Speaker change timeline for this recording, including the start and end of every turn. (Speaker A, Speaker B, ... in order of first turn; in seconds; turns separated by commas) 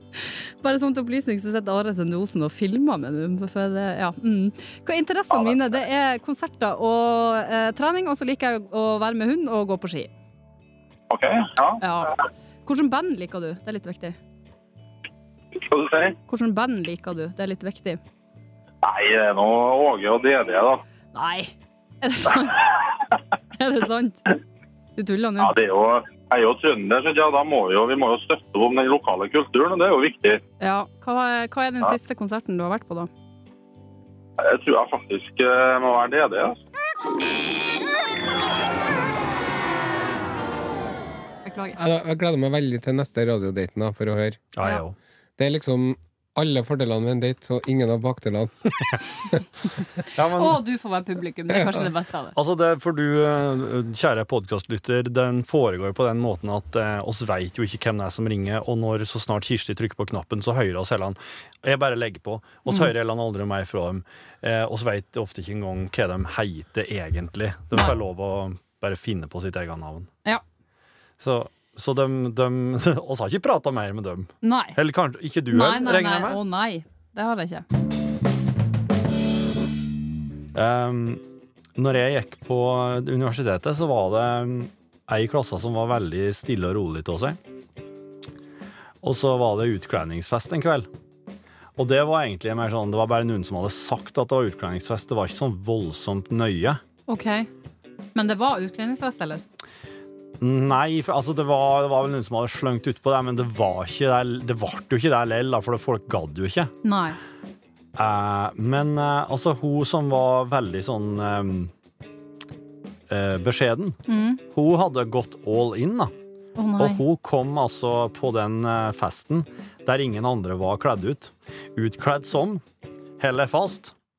Speaker A: 0.1-10.1, Speaker B: 11.1-11.8, Speaker A: 11.8-14.2, Speaker B: 15.7-16.1, Speaker A: 16.3-18.0, Speaker B: 18.8-20.8, Speaker A: 21.1-22.9, Speaker A: 23.5-24.2, Speaker A: 25.0-25.5, Speaker B: 25.4-30.4, Speaker A: 30.6-33.1, Speaker B: 34.4-36.6, Speaker A: 41.5-41.8, Speaker C: 41.8-44.4, Speaker D: 44.5-45.0, Speaker C: 45.4-48.7, Speaker D: 50.1-50.6, Speaker A: 50.4-52.4, Speaker D: 52.4-70.1, Speaker D: 71.2-76.4, Speaker A: 74.4-74.8, Speaker A: 75.5-77.6, Speaker D: 80.5-81.2, Speaker D: 81.8-87.4, Speaker D: 89.0-90.9, Speaker D: 91.8-96.8, Speaker A: 97.1-97.5, Speaker A: 98.1-99.4, Speaker D: 100.4-106.7, Speaker A: 106.8-107.2, Speaker D: 108.0-111.7, Speaker D: 113.1-114.0, Speaker A: 114.1-114.4, Speaker D: 114.5-116.1, Speaker A: 116.6-117.0, Speaker D: 116.8-122.6, Speaker D: 123.2-123.9